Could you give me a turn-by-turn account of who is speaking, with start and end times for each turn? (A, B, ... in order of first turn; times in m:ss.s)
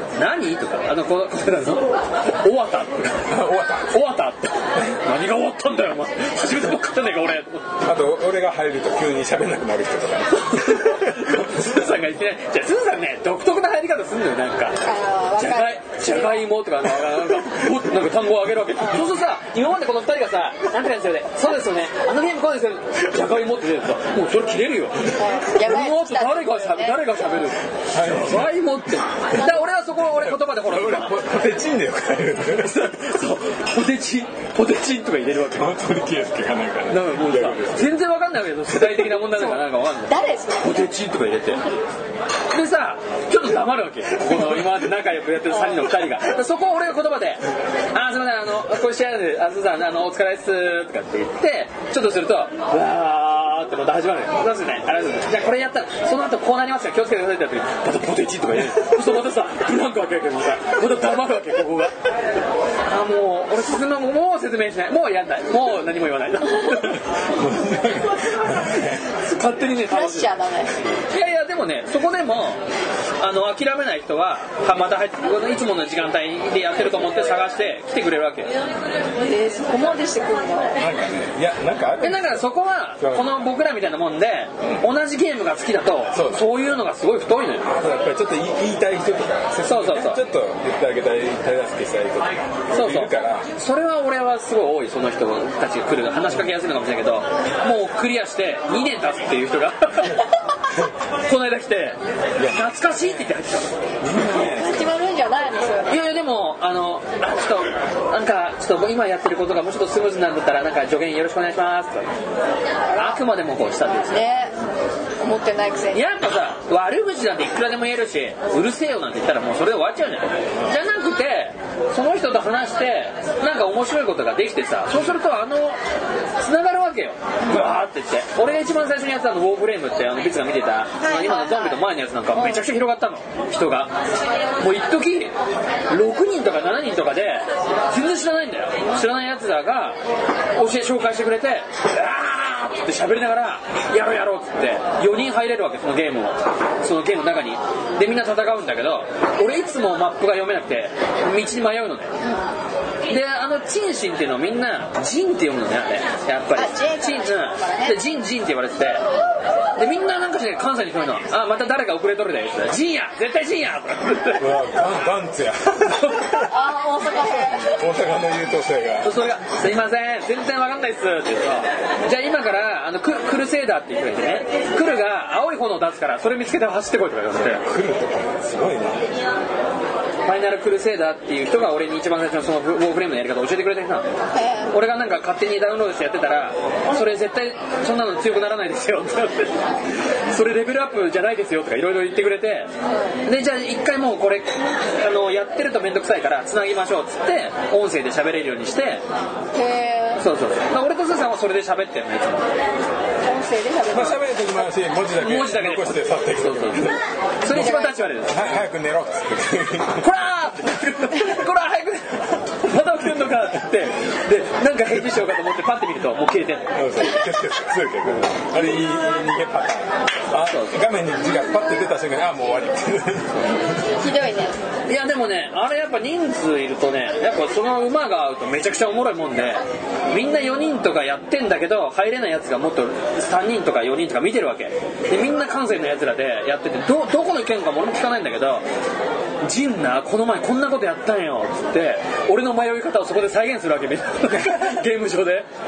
0:00.2-0:03.3 A
0:03.3-0:04.0 B
0:03.9-0:07.7 A
0:07.8-0:11.2 B
0:10.5-0:14.8 A
0:14.8-0:16.4 C
0:15.4-0:31.1 A
0:25.1-0:27.0 C
0:27.9-0:28.6 B
0:30.1-0:32.9 B
0:32.6-0:35.7 A
0:35.5-0:38.0 B
0:36.9-0:41.6 A
0:40.1-0:40.9 C
0:42.5-1:01.9 A
1:02.9-1:07.0 A
1:06.9-1:09.1 B
1:09.1-1:10.3 A
1:09.9-1:10.7 C
1:11.1-1:12.6 A
1:13.2-1:18.5 A
1:19.2-1:20.8 C
1:20.8-1:22.5 B
1:22.0-1:27.7 A
1:23.0-1:23.4 B
1:26.1-1:26.5 B
1:27.6-1:33.5 B
1:29.6-1:30.2 A
1:32.7-1:40.2 A
1:41.2-1:43.7 A
1:42.4-1:43.3 B
1:44.0-1:45.0 B
1:44.2-1:46.0 C
1:45.9-1:52.1 A
1:52.9-1:53.2 C
1:52.9-1:54.3 A
1:54.1-1:54.5 C
1:55.2-1:56.0 C
1:55.9-2:05.8 A
2:06.4-2:13.9 A
2:07.4-2:07.7 C
2:11.0-2:11.8 C
2:12.3-2:12.7 C
2:14.6-2:15.3 A
2:15.9-2:20.0 A
2:20.6-2:32.1 A
2:32.2-2:32.5 C
2:33.1-2:39.0 A
2:36.5-2:38.0 C
2:39.8-2:44.4 A
2:44.4-2:46.5 B
2:46.5-2:47.8 C
2:47.4-2:49.1 B
2:49.0-2:57.6 A
2:57.3-2:59.2 B
3:00.2-3:04.0 A
3:04.3-3:04.7 C
3:04.7-3:09.6 A
3:10.3-3:12.7 A
3:12.8-3:13.2 C
3:13.2-3:19.0 A
3:19.5-3:20.2 C
3:20.2-3:22.5 A
3:23.2-3:24.2 C
3:23.9-3:30.0 B
3:25.2-3:28.6 A
3:27.5-3:28.0 C
3:30.0-3:36.7 A
3:36.7-3:43.8 B
3:40.3-3:40.8 A
3:44.0-3:44.6 C
3:44.9-3:58.6 A
3:59.4-4:05.4 A
4:04.3-4:04.7 B